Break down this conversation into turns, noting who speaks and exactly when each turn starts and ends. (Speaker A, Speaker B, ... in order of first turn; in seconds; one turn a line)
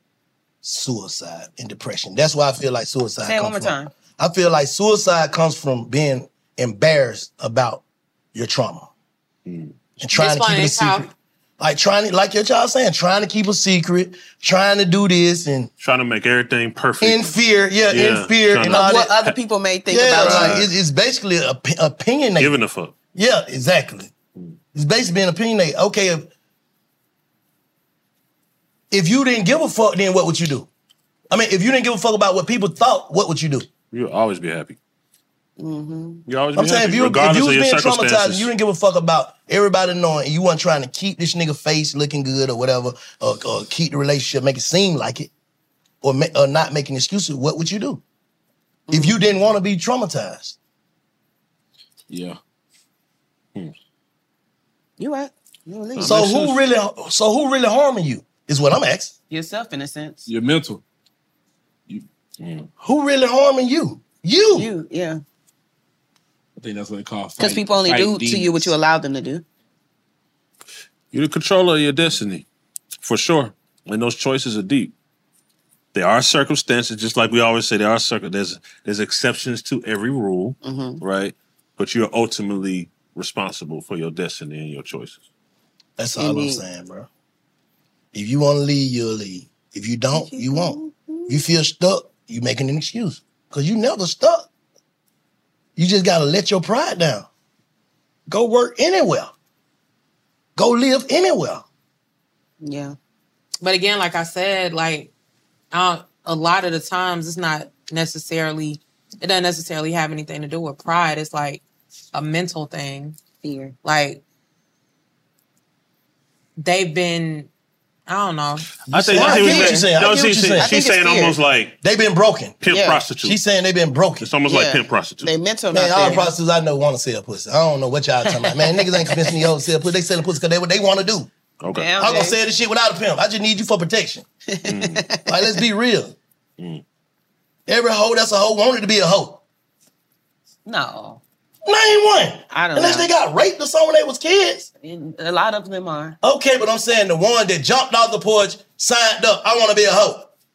Speaker A: 0.6-8.9
Speaker B: 3.2-3.9
Speaker C: 9.5-9.8
Speaker A: 10.0-15.7
Speaker D: 10.1-11.1
Speaker C: 15.8-17.4
Speaker A: 17.0-19.1
Speaker C: 17.9-19.4
Speaker B: 18.6-20.6
Speaker A: 19.9-22.5
Speaker C: 20.1-20.7
Speaker C: 22.4-23.0
Speaker A: 23.1-24.1
Speaker A: 24.7-26.3
Speaker A: 28.9-30.7
Speaker A: 31.3-33.7
Speaker C: 33.9-34.8
Speaker B: 35.6-36.2
Speaker C: 36.3-38.5
Speaker A: 36.5-45.3
Speaker A: 46.0-48.0
Speaker B: 48.9-49.2
Speaker A: 48.9-50.6
Speaker E: 52.1-52.4
Speaker B: 55.0-56.2
Speaker C: 56.0-56.6
Speaker A: 56.0-59.1
Speaker B: 59.3-60.3
Speaker E: 60.3-60.8
Speaker C: 62.4-62.7
Speaker A: 62.8-64.7
Speaker B: 64.5-65.2
Speaker E: 66.6-68.7
Speaker B: 67.4-69.5
Speaker C: 71.1-72.5
Speaker C: 73.0-74.9
Speaker C: 75.9-85.2
Speaker B: 80.6-81.0
Speaker A: 86.0-87.1
Speaker B: 86.2-86.6
Speaker A: 88.1-94.5
Speaker B: 90.1-91.4
Speaker A: 95.8-97.3
Speaker A: 98.3-99.3
Speaker A: 100.6-101.7
Speaker B: 102.6-103.0
Speaker D: 103.6-105.1
Speaker D: 105.7-111.6
Speaker D: 112.1-113.2
Speaker B: 113.4-113.8
Speaker D: 113.8-114.2
Speaker D: 116.6-117.5
Speaker D: 118.1-118.7
Speaker C: 118.9-121.8
Speaker A: 118.9-120.7
Speaker B: 119.1-119.9
Speaker B: 120.6-121.4
Speaker A: 121.8-122.6
Speaker C: 122.6-123.4
Speaker B: 122.7-123.0
Speaker A: 123.2-124.3
Speaker C: 124.2-125.3
Speaker B: 124.5-126.3
Speaker A: 125.7-131.3
Speaker B: 128.3-129.4
Speaker C: 131.6-131.9
Speaker B: 131.8-132.4
Speaker A: 132.0-134.3
Speaker B: 134.5-135.6
Speaker C: 134.7-135.0
Speaker A: 135.3-136.2
Speaker A: 137.7-139.4
Speaker B: 140.7-141.2
Speaker A: 141.7-144.7
Speaker B: 142.5-143.1
Speaker B: 144.8-146.2
Speaker A: 146.2-150.3